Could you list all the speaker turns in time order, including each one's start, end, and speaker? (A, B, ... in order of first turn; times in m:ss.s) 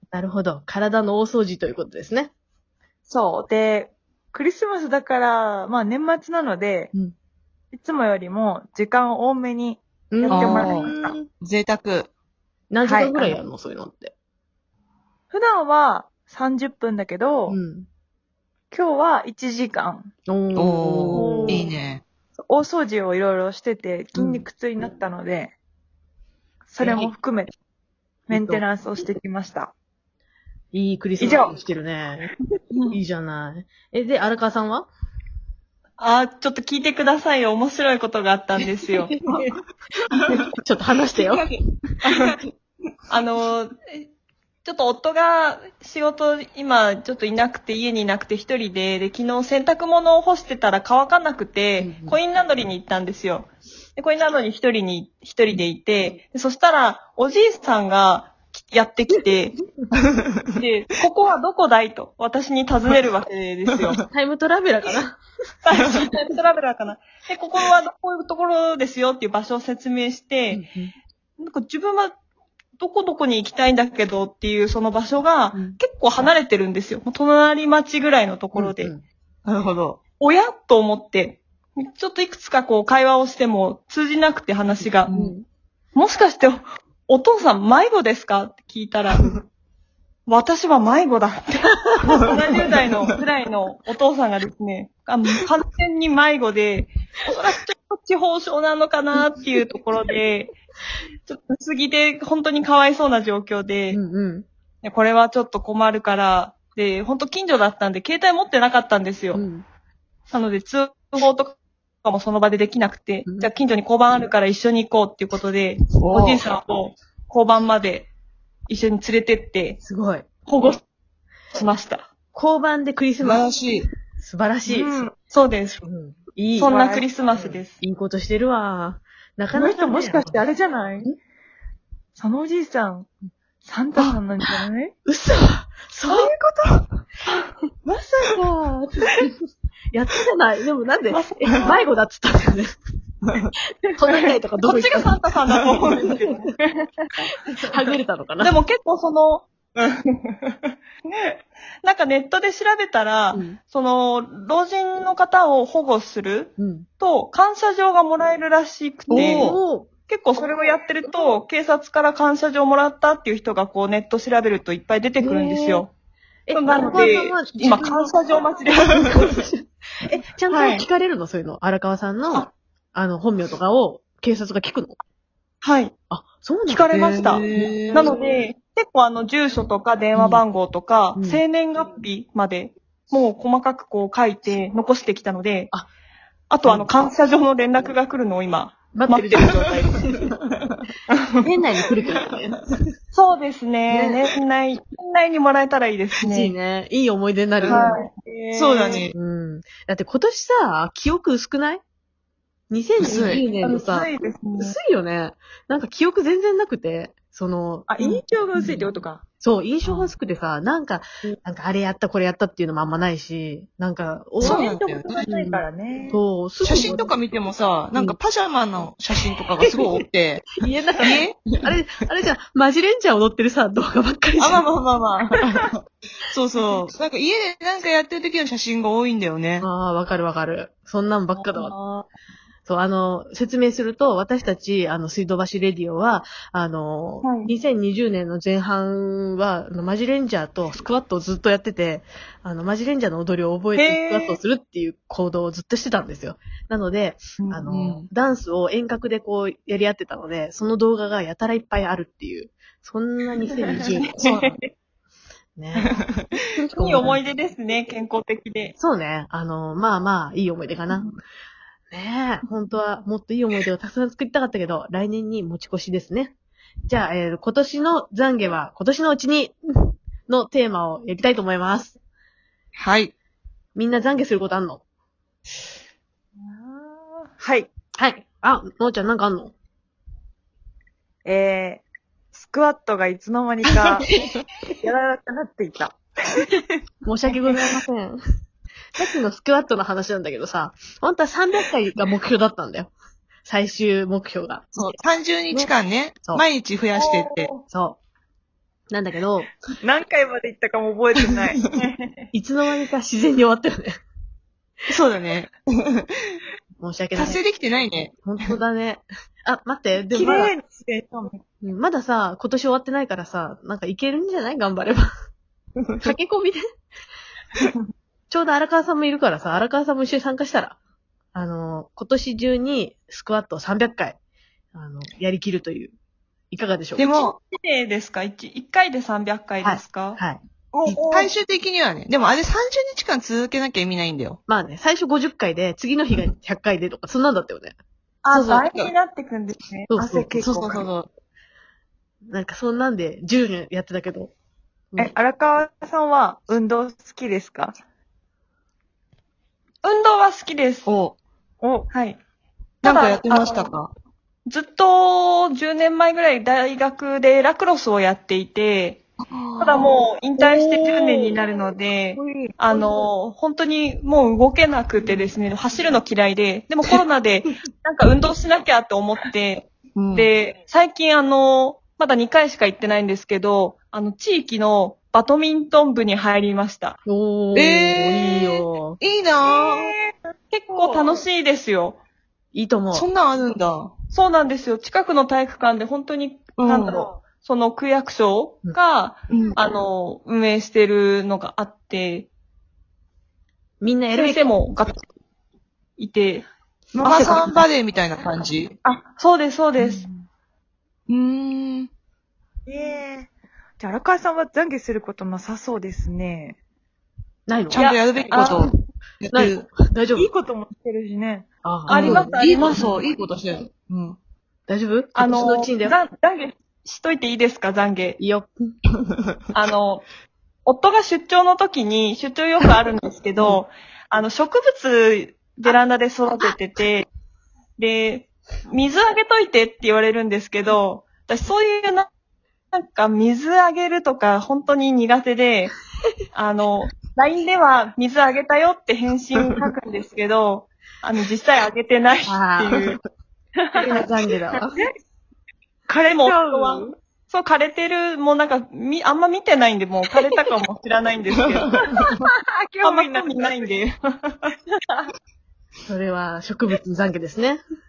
0:00.1-0:02.3 A
0:03.1-0:06.9 B
0:07.7-0:11.1 B
0:10.1-0:11.3 A
0:10.3-0:10.9 C
0:11.4-0:12.1 C
0:12.7-0:14.1 A
0:12.8-0:13.4 B
0:15.3-0:17.6 B
0:17.5-0:17.9 A
0:18.7-0:20.1 B
0:20.3-0:21.7 A
0:20.5-0:22.0 C
0:21.1-0:21.7 B
0:22.5-0:25.5 B
0:24.2-0:24.4 A
0:26.7-0:27.5 B
0:28.3-0:29.7 B
0:28.3-0:28.6 A
0:30.7-0:32.3 A
0:31.2-0:31.5 B
0:32.9-0:34.9 A
0:36.0-0:39.1 D
0:39.1-0:39.5 C
0:40.3-0:41.5 A
0:41.2-0:41.5 C
0:42.0-0:42.5 C
0:43.1-0:44.1 D
0:44.6-0:59.6 D
0:51.8-0:52.2 A
1:00.5-1:04.0 D
1:04.1-1:05.2 A
1:05.6-1:10.6 D
1:10.5-1:10.9 A
1:11.4-1:12.1 D
1:12.8-1:18.9 D
1:18.5-1:19.0 A
1:19.4-1:20.0 C
1:20.2-1:25.1 D
1:25.1-1:25.4 A
1:25.1-1:25.3 C
1:25.9-1:29.3 D
1:30.3-1:40.6 D
1:41.2-1:44.0 D
1:43.9-1:44.4 A
1:44.8-1:49.4 D
1:49.3-1:49.6 A
1:50.3-1:58.1 D
1:56.0-1:56.4 C
1:58.7-1:59.8 D
1:59.8-2:00.2 A
2:00.4-2:00.8 D
2:01.5-2:02.1 D
2:02.3-2:03.4 A
2:03.2-2:03.9 C
2:04.2-2:05.0 A
2:04.7-2:05.1 B
2:05.3-2:05.8 D
2:05.8-2:06.8 A
2:06.6-2:07.8 D
2:06.6-2:07.0 B
2:07.3-2:10.4 A
2:09.5-2:11.1 B
2:12.2-2:13.1 B
2:13.6-2:14.9 B
2:15.0-2:16.3 A
2:16.1-2:16.5 B
2:17.9-2:19.3 A
2:19.9-2:22.7 A
2:21.1-2:21.7 D
2:24.0-2:26.4 A
2:24.2-2:26.9 D
2:27.5-2:30.6 D
2:27.6-2:28.6 A
2:31.1-2:39.6 D
2:33.3-2:33.6 A
2:36.6-2:36.9 A
2:39.1-2:39.6 C
2:39.1-2:39.9 A
2:40.1-2:45.9 D
2:45.2-2:45.8 A
2:46.5-2:48.1 A
2:46.5-2:49.4 D
2:48.9-2:55.0 A
2:50.5-2:50.8 D
2:55.6-2:55.9 D
2:56.1-2:56.9 A
2:56.7-3:05.7 D
2:56.9-2:58.1 C
2:57.5-2:58.2 A
3:00.1-3:00.4 A
3:01.1-3:01.4 A
3:06.5-3:09.8 D
3:06.6-3:06.9 A
3:08.9-3:10.3 A
3:11.4-3:12.7 A
3:13.1-3:16.5 D
3:13.9-3:14.2 A
3:16.2-3:17.9 A
3:17.6-3:19.0 B
3:17.6-3:18.1 D
3:18.5-3:19.1 C
3:19.1-3:21.8 A
3:22.7-3:28.8 A
3:23.0-3:23.4 C
3:23.4-3:24.7 D
3:27.9-3:29.2 B
3:29.4-3:34.7 A
3:34.4-3:35.2 C
3:34.4-3:36.9 B
3:35.3-3:37.1 A
3:36.6-3:40.5 C
3:40.6-3:44.6 A
3:41.0-3:41.4 C
3:44.4-3:49.7 C
3:49.6-3:51.7 A
3:51.4-3:52.1 D
3:52.6-4:14.6 A
4:03.8-4:04.4 D
4:07.6-4:08.1 C
4:13.8-4:14.5 D
4:15.6-4:16.0 A
4:16.5-4:17.2 A
4:16.7-4:18.7 D
4:18.8-4:21.1 A
4:21.9-4:26.3 A
4:26.9-4:32.0 A
4:32.8-4:33.1 C
4:33.7-4:34.8 A
4:36.4-4:36.9 D
4:37.4-4:37.7 B
4:38.0-4:39.5 A
4:41.2-4:44.1 B
4:44.8-4:46.5 B
4:47.0-4:48.2 A
4:49.0-4:52.9 A
4:53.4-4:54.7 A
4:54.7-4:57.5 C
4:57.7-4:58.0 A
4:58.9-4:59.5 A
4:59.7-5:01.9 B
5:02.3-5:04.0 A
5:04.9-5:06.4 C
5:06.8-5:07.4 A
5:07.1-5:08.1 C
5:08.2-5:10.5 A
5:10.1-5:11.4 B
5:11.6-5:15.1 A
5:16.0-5:16.6 A
5:18.3-5:20.8 A
5:21.3-5:24.2 A
5:24.7-5:25.9 A
5:26.5-5:27.0 A
5:27.0-5:27.3 C
5:27.0-5:30.2 D
5:29.6-5:30.4 A
5:30.7-5:31.3 B
5:30.9-5:34.4 C
5:34.5-5:37.7 A
5:38.2-5:39.9 D
5:38.3-5:38.7 A
5:39.9-5:40.8 A
5:40.0-5:40.5 B
5:40.5-5:41.1 C
5:42.3-5:44.3 A
5:45.0-5:47.8 B
5:49.8-5:50.8 D
5:50.8-5:51.2 C
5:51.6-5:51.9 B
5:51.9-5:52.2 D
5:52.8-5:53.7 D
5:52.8-5:53.9 C
5:54.5-5:59.0 D
5:59.3-5:59.9 C
5:59.6-6:17.0 D
6:00.4-6:01.4 B
6:02.2-6:02.8 B
6:10.0-6:10.3 C
6:17.0-6:19.0 A
6:17.5-6:19.9 C
6:19.4-6:20.1 B
6:20.5-6:22.0 D
6:20.7-6:21.2 B
6:22.5-6:23.1 A
6:22.9-6:23.9 C
6:24.1-6:32.3 D
6:26.6-6:27.1 C
6:29.3-6:29.6 C
6:33.8-6:34.5 A
6:34.1-6:35.1 D
6:36.0-6:36.5 D
6:36.9-6:37.5 B
6:37.0-6:38.7 C
6:38.8-6:40.0 D
6:39.8-6:40.2 B
6:41.1-6:41.9 C
6:42.7-6:46.6 B
6:47.5-6:47.8 A
6:47.7-6:49.7 C
6:47.7-6:48.7 D
6:49.3-6:50.3 A
6:50.1-6:51.5 B
6:51.6-6:52.3 A
6:51.9-6:52.9 D
6:51.9-6:54.2 C
6:54.7-6:56.0 A
6:55.1-6:58.2 D
6:58.2-6:58.5 A
6:59.5-7:00.0 D
7:00.6-7:07.1 D
7:07.8-7:12.1 D
7:12.7-7:15.7 D
7:16.3-7:23.0 D
7:22.2-7:22.8 A
7:23.6-7:23.9 B
7:23.8-7:24.8 A
7:25.9-7:26.9 B
7:26.1-7:31.9 D
7:31.7-7:32.1 C
7:32.0-7:33.6 B
7:32.8-7:34.5 D
7:34.7-7:35.1 B
7:35.8-7:37.6 A